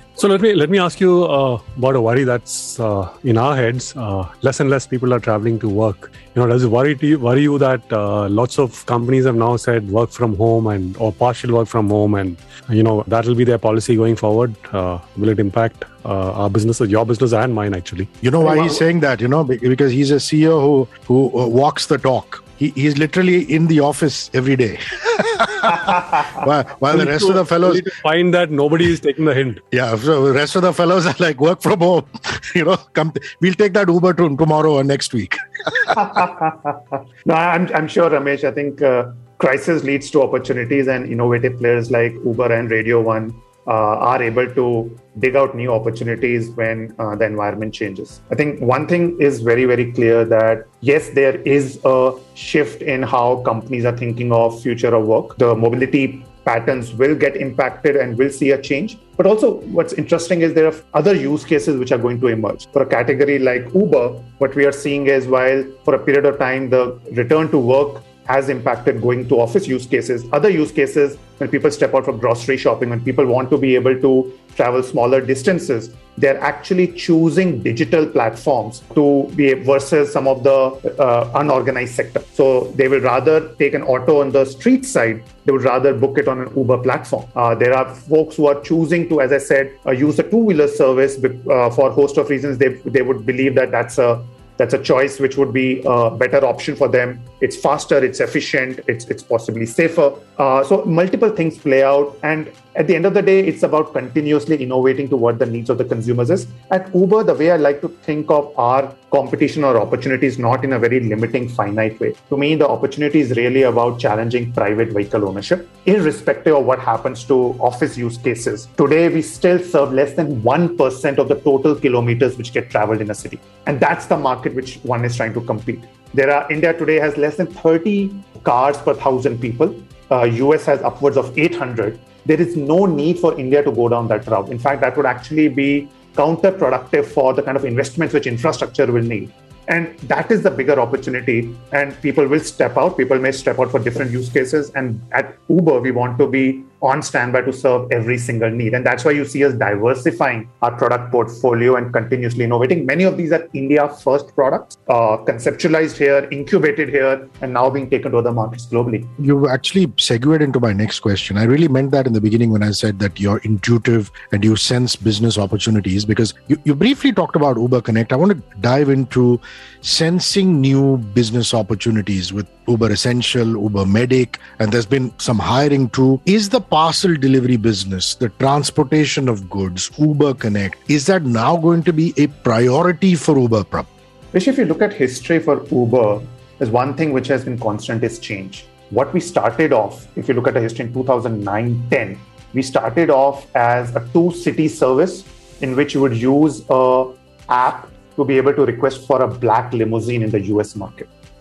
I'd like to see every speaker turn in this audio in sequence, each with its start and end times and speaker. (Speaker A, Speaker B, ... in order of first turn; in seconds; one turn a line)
Speaker A: 0.2-18.1
Speaker B: 18.2-27.9
Speaker C: 18.4-18.8
Speaker A: 26.9-29.6
Speaker B: 29.7-36.0
Speaker C: 35.9-159.1
Speaker B: 159.2-183.9
Speaker C: 184.3-201.1